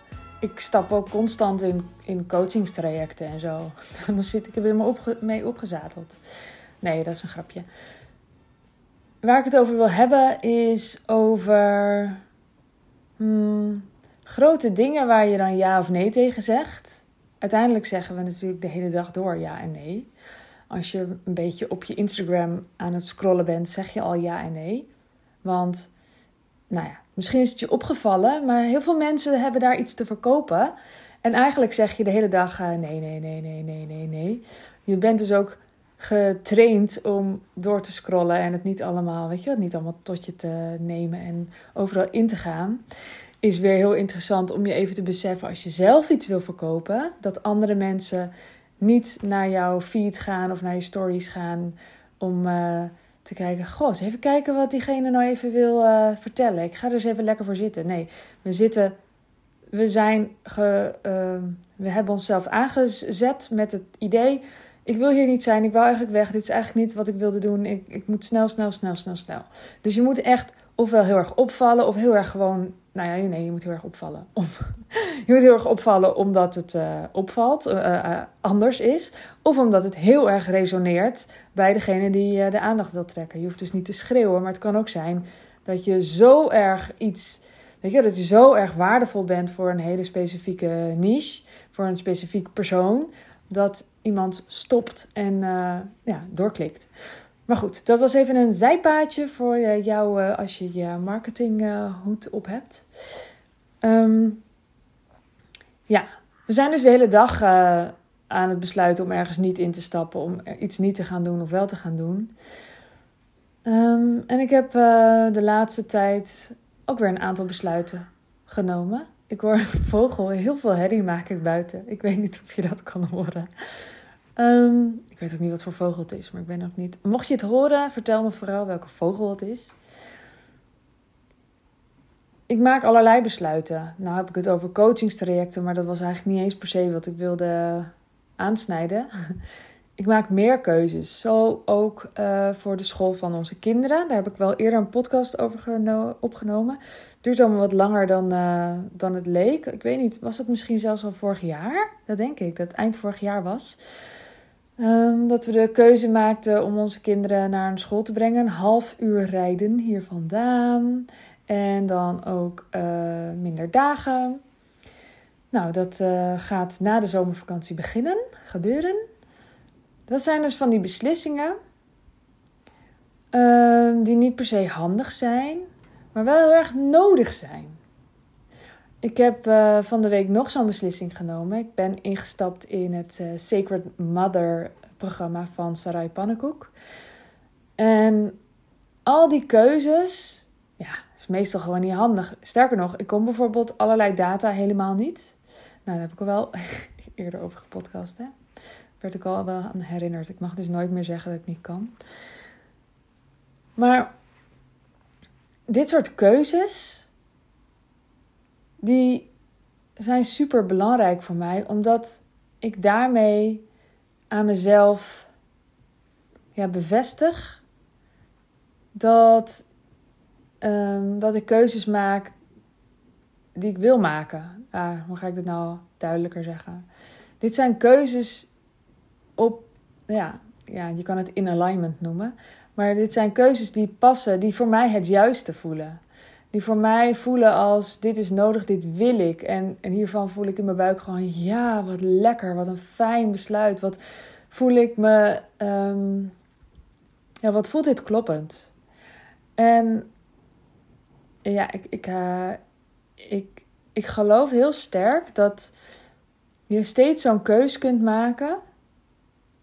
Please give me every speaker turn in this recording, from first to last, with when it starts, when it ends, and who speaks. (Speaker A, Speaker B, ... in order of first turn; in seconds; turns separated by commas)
Speaker A: 0.4-6.2, Speaker A: 6.8-7.7, Speaker A: 9.2-12.2, Speaker A: 13.2-20.1, Speaker A: 20.7-24.9, Speaker A: 25.4-25.9, Speaker A: 26.7-42.8, Speaker A: 43.4-58.9, Speaker A: 59.7-96.9, Speaker A: 97.5-102.9, Speaker A: 103.8-104.4, Speaker A: 105.9-112.3, Speaker A: 113.6-123.5, Speaker A: 124.3-129.8, Speaker A: 132.5-139.1, Speaker A: 140.0-153.8, Speaker A: 154.8-164.4, Speaker A: 165.5-169.0, Speaker A: 170.1-171.6, Speaker A: 173.3-177.8, Speaker A: 179.0-186.7, Speaker A: 187.8-188.4, Speaker A: 189.1-198.3, Speaker A: 199.0-201.9, Speaker A: 203.8-204.1, Speaker A: 205.7-207.1, Speaker A: 208.8-209.3, Speaker A: 210.0-213.6, Speaker A: 214.3-215.3, Speaker A: 216.5-217.6, Speaker A: 218.9-219.7, Speaker A: 220.6-222.3, Speaker A: 223.6-226.8, Speaker A: 227.4-228.5, Speaker A: 229.4-236.0, Speaker A: 236.5-246.3, Speaker A: 247.4-248.7, Speaker A: 249.6-250.1, Speaker A: 251.4-252.6, Speaker A: 253.2-255.7, Speaker A: 256.7-258.6